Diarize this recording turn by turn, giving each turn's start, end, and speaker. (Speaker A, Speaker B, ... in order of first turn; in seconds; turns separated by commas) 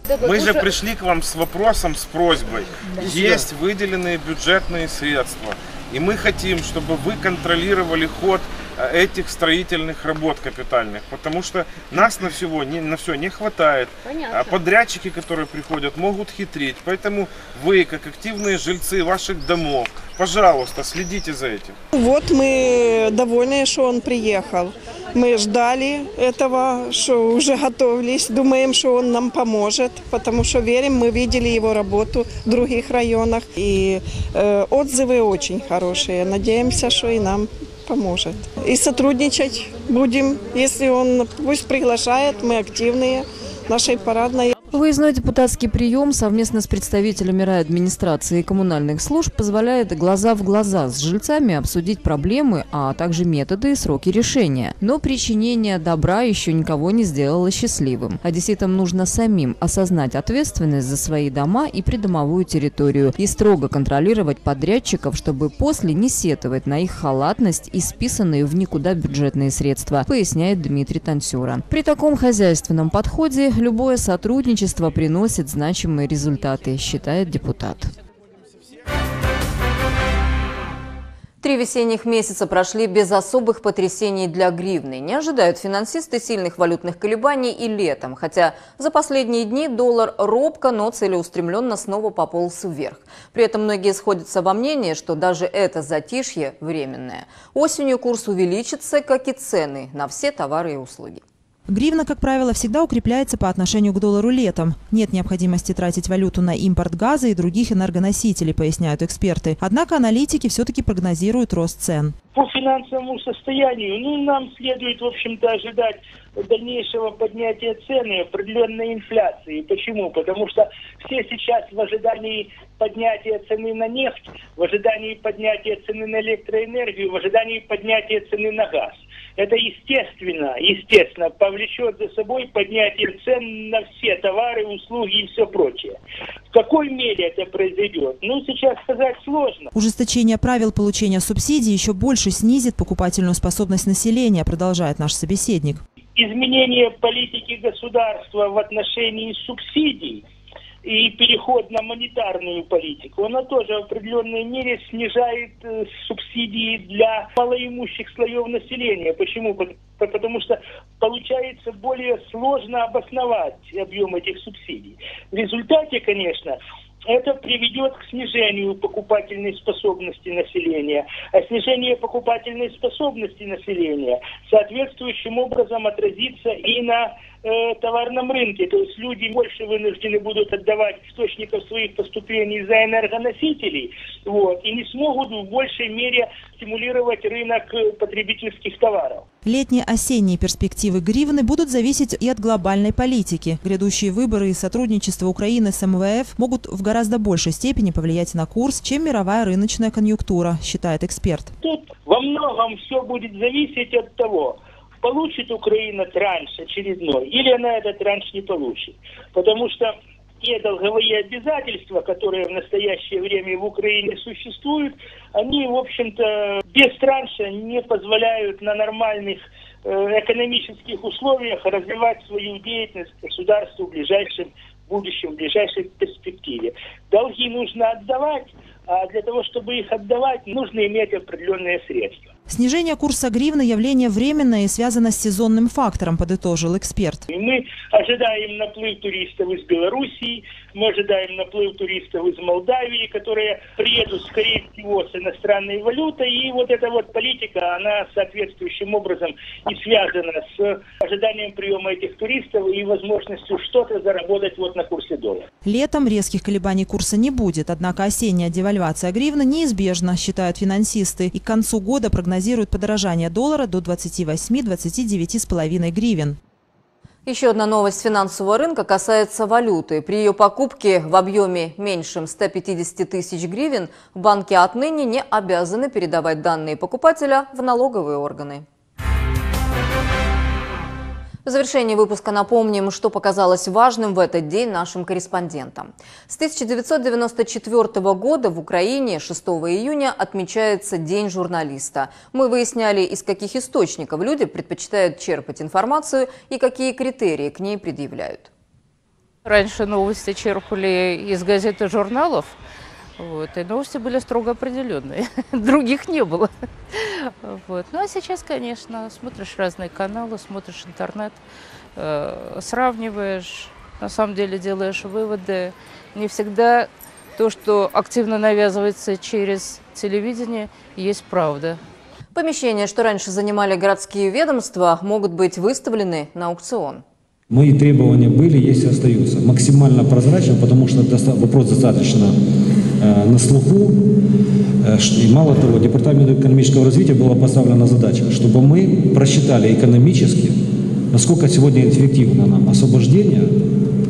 Speaker A: 0.2-21.8, Speaker B: 21.9-44.5, Speaker C: 44.7-77.9, Speaker C: 81.4-101.2, Speaker D: 101.7-112.1, Speaker E: 112.3-136.0, Speaker E: 136.5-139.7, Speaker D: 139.7-145.8, Speaker E: 146.2-150.2, Speaker E: 150.8-189.2, Speaker D: 189.4-201.5, Speaker E: 201.6-232.3, Speaker D: 232.5-237.2, Speaker E: 237.3-255.5, Speaker D: 255.6-266.4, Speaker C: 267.3-278.6, Speaker C: 281.4-298.5, Speaker F: 299.4-302.6, Speaker F: 303.2-311.4, Speaker F: 312.0-321.8, Speaker C: 322.4-327.0, Speaker G: 327.5-332.4, Speaker G: 333.0-334.0, Speaker G: 334.8-340.6, Speaker G: 341.1-343.5